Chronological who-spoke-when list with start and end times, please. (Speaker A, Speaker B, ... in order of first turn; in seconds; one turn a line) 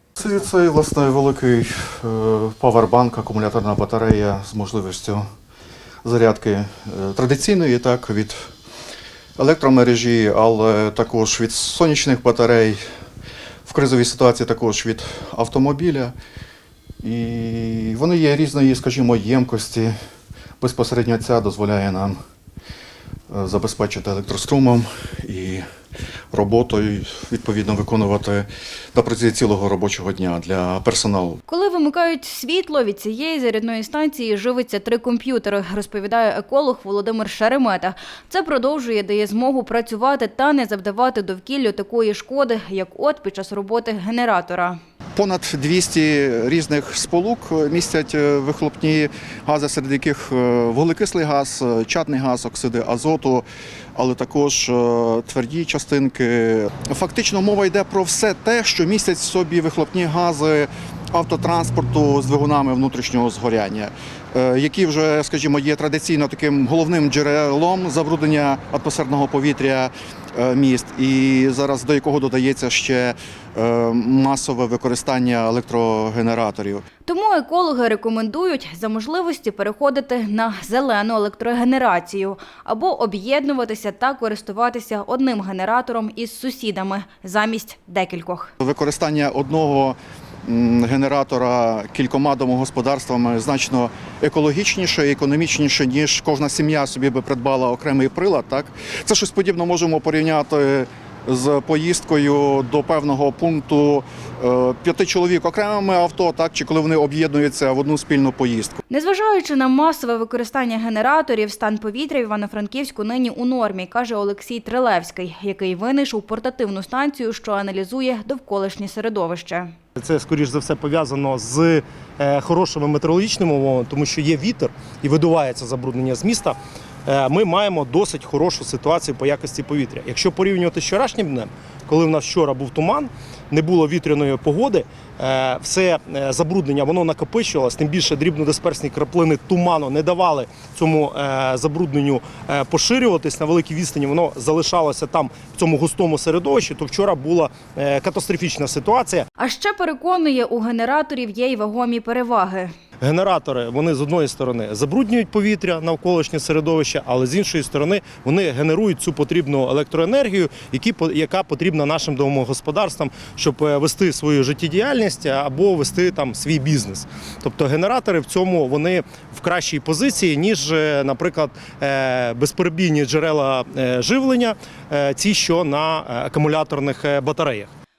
Speaker A: 0.2-5.2
Speaker A: 6.0-8.5
Speaker A: 9.4-12.8
Speaker A: 13.7-16.1
Speaker A: 17.0-19.9
Speaker A: 20.6-22.2
Speaker A: 23.3-25.6
Speaker A: 26.3-31.4
Speaker B: 31.5-44.8
Speaker A: 45.1-53.4
Speaker A: 54.0-76.8
Speaker B: 77.0-88.5
Speaker A: 88.6-108.8
Speaker B: 108.9-119.7
Speaker C: 120.0-149.2
Speaker B: 149.4-152.7
Speaker C: 153.0-177.7